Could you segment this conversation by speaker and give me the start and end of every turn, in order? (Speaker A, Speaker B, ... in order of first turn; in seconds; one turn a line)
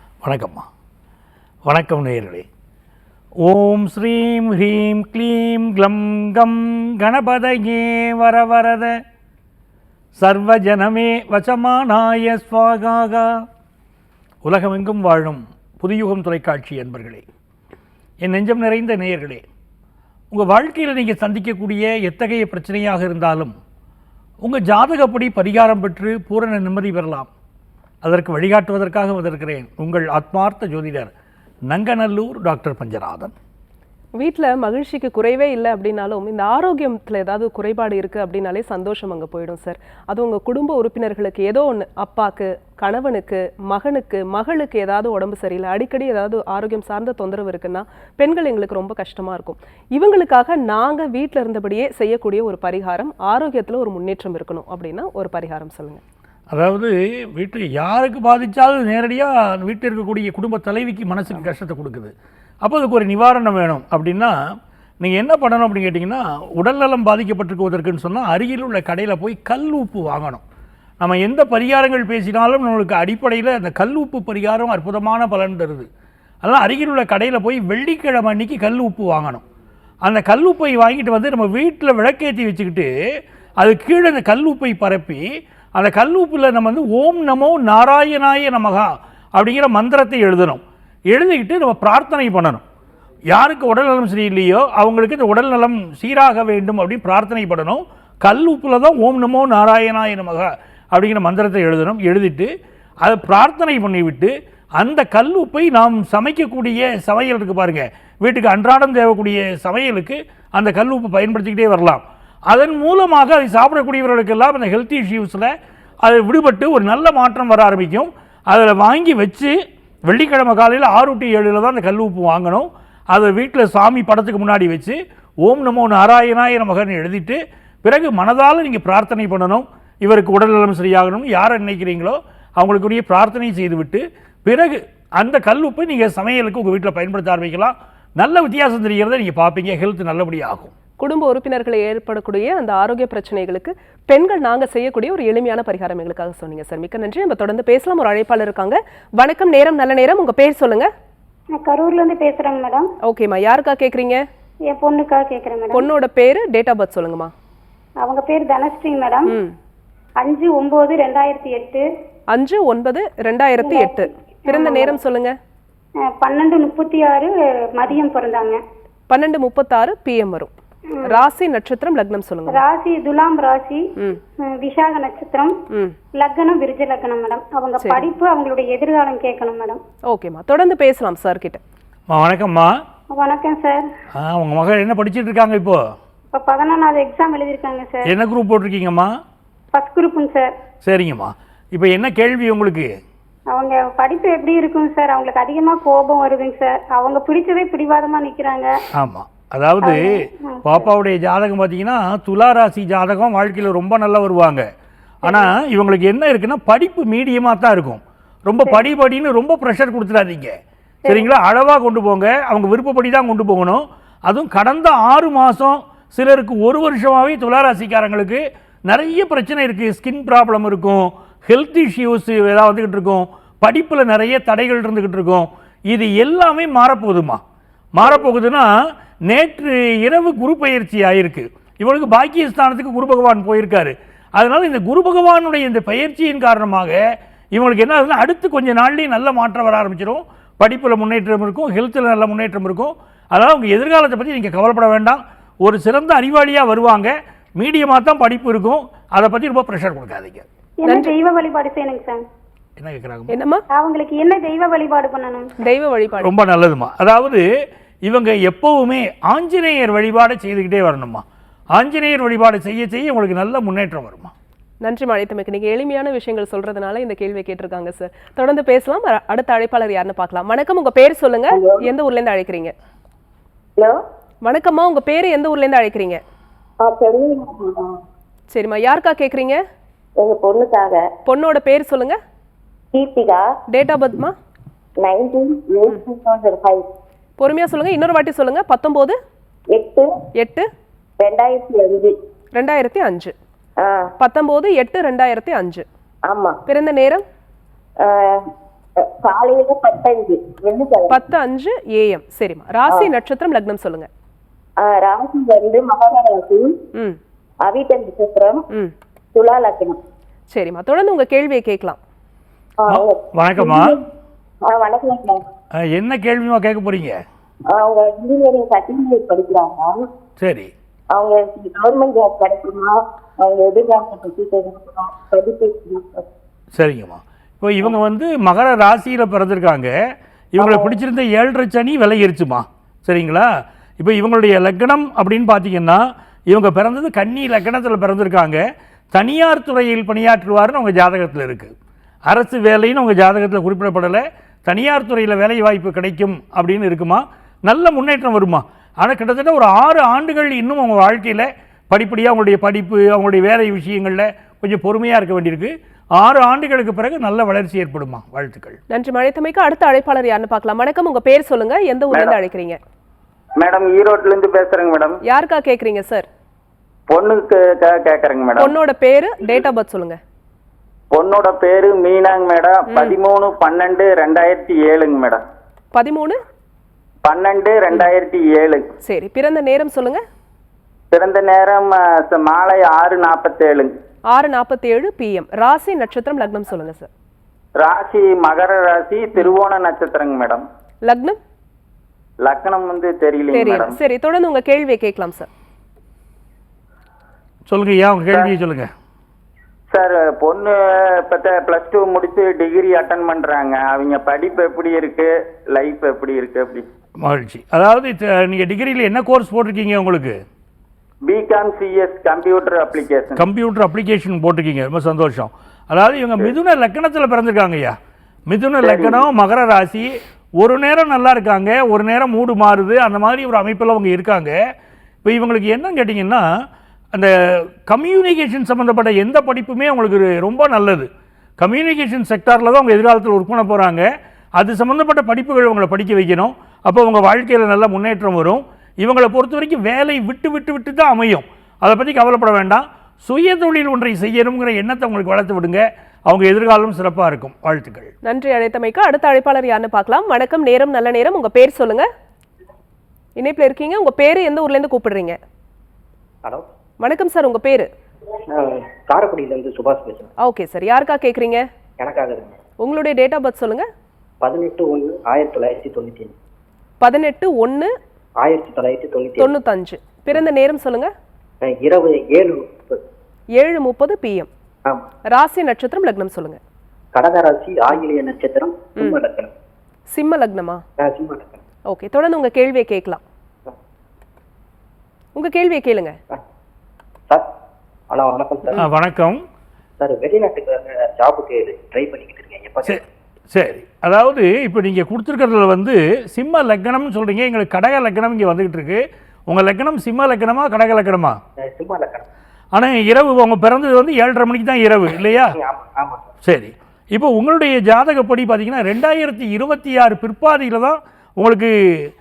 Speaker A: 0.2-0.6
Speaker A: 1.6-2.4
Speaker A: 3.4-9.0
Speaker A: 10.2-13.3
Speaker A: 14.4-17.2
Speaker A: 18.2-19.4
Speaker A: 20.3-23.5
Speaker A: 24.4-27.3
Speaker A: 28.0-31.1
Speaker A: 31.7-33.3
Speaker B: 34.2-56.0
Speaker A: 56.5-62.1
Speaker A: 62.6-64.3
Speaker A: 65.0-70.4
Speaker A: 71.0-75.9
Speaker A: 76.4-79.4
Speaker A: 80.0-82.9
Speaker A: 83.6-85.2
Speaker A: 85.8-92.6
Speaker A: 93.3-102.5
Speaker A: 103.0-115.5
Speaker A: 116.0-119.5
Speaker A: 120.1-140.7
Speaker B: 141.0-150.9
Speaker C: 151.5-152.9
Speaker B: 153.0-154.2
Speaker C: 154.7-155.9
Speaker B: 155.7-157.3
Speaker C: 158.0-159.3
Speaker C: 160.2-161.8
Speaker B: 162.3-165.3
Speaker C: 163.6-164.9
Speaker C: 166.0-168.6
Speaker B: 169.1-170.5
Speaker C: 170.9-171.2
Speaker B: 171.0-172.6
Speaker C: 172.5-173.8
Speaker C: 174.4-175.5
Speaker C: 176.1-179.8
Speaker B: 177.8-178.1
Speaker B: 180.1-181.6
Speaker A: 182.1-182.7
Speaker C: 183.1-183.8
Speaker A: 184.2-185.8
Speaker C: 186.3-188.1
Speaker A: 188.1-189.1
Speaker C: 189.7-190.5
Speaker A: 190.8-192.9
Speaker C: 193.5-198.7
Speaker A: 199.0-204.6
Speaker C: 199.8-200.8
Speaker A: 205.2-210.5
Speaker A: 211.1-227.4
Speaker A: 227.9-228.7
Speaker A: 229.3-237.0
Speaker A: 237.5-250.4
Speaker C: 250.8-252.2
Speaker B: 250.9-251.1
Speaker A: 252.8-253.3
Speaker B: 253.3-253.6
Speaker C: 253.7-255.5
Speaker B: 255.6-256.3
Speaker A: 256.2-257.4
Speaker A: 258.1-261.2
Speaker A: 261.8-264.3
Speaker B: 264.8-272.7
Speaker D: 271.5-271.9
Speaker B: 274.4-276.2
Speaker D: 276.8-278.0
Speaker B: 278.5-279.6
Speaker D: 280.2-281.1
Speaker B: 281.2-282.2
Speaker D: 282.9-283.4
Speaker B: 283.7-284.3
Speaker D: 285.0-286.9
Speaker B: 287.4-289.2
Speaker D: 289.7-290.1
Speaker B: 290.4-290.7
Speaker D: 291.2-292.1
Speaker B: 292.6-293.3
Speaker D: 293.8-294.1
Speaker B: 294.2-295.8
Speaker D: 296.3-296.6
Speaker B: 296.6-297.2
Speaker D: 298.0-298.5
Speaker D: 299.2-301.2
Speaker B: 301.1-304.1
Speaker D: 302.9-303.1
Speaker D: 304.8-306.8
Speaker D: 307.6-308.6
Speaker D: 309.3-310.0
Speaker B: 310.5-312.0
Speaker D: 312.8-314.0
Speaker A: 312.9-314.0
Speaker D: 314.6-315.4
Speaker A: 315.8-317.2
Speaker D: 317.7-320.0
Speaker A: 320.4-320.7
Speaker D: 321.1-326.2
Speaker A: 326.8-329.9
Speaker A: 330.5-341.7
Speaker D: 330.6-330.9
Speaker A: 342.3-358.8
Speaker B: 358.9-362.8
Speaker E: 363.6-365.1
Speaker B: 365.2-366.2
Speaker E: 367.1-368.7
Speaker B: 368.6-370.2
Speaker E: 371.1-375.4
Speaker B: 375.9-376.4
Speaker E: 377.2-378.8
Speaker B: 379.0-380.2
Speaker E: 381.1-383.9
Speaker B: 384.3-387.1
Speaker E: 387.8-390.6
Speaker B: 391.1-391.4
Speaker E: 392.4-393.9
Speaker B: 393.5-395.5
Speaker A: 397.7-398.9
Speaker E: 399.9-406.8
Speaker A: 407.2-410.4
Speaker E: 411.3-413.3
Speaker C: 412.0-413.1
Speaker A: 413.4-417.9
Speaker A: 418.5-424.6
Speaker E: 418.8-419.1
Speaker A: 425.2-426.4
Speaker A: 427.1-431.1
Speaker A: 431.6-434.1
Speaker A: 434.6-448.1
Speaker B: 448.2-452.1
Speaker B: 453.4-455.4
Speaker B: 457.0-457.9
Speaker F: 458.5-460.3
Speaker B: 460.4-461.6
Speaker F: 462.0-462.6
Speaker B: 462.8-463.9
Speaker F: 464.4-466.4
Speaker B: 467.0-467.9
Speaker F: 468.4-469.5
Speaker B: 469.4-471.1
Speaker F: 471.6-473.0
Speaker B: 473.6-474.5
Speaker B: 475.3-476.6
Speaker F: 477.1-479.5
Speaker B: 480.1-480.8
Speaker F: 481.0-481.6
Speaker B: 481.9-483.2
Speaker B: 485.3-486.1
Speaker F: 488.1-488.9
Speaker A: 488.8-489.4
Speaker F: 490.0-493.0
Speaker A: 492.8-501.4
Speaker F: 501.6-502.3
Speaker A: 502.7-505.6
Speaker F: 505.5-506.3
Speaker A: 506.4-511.7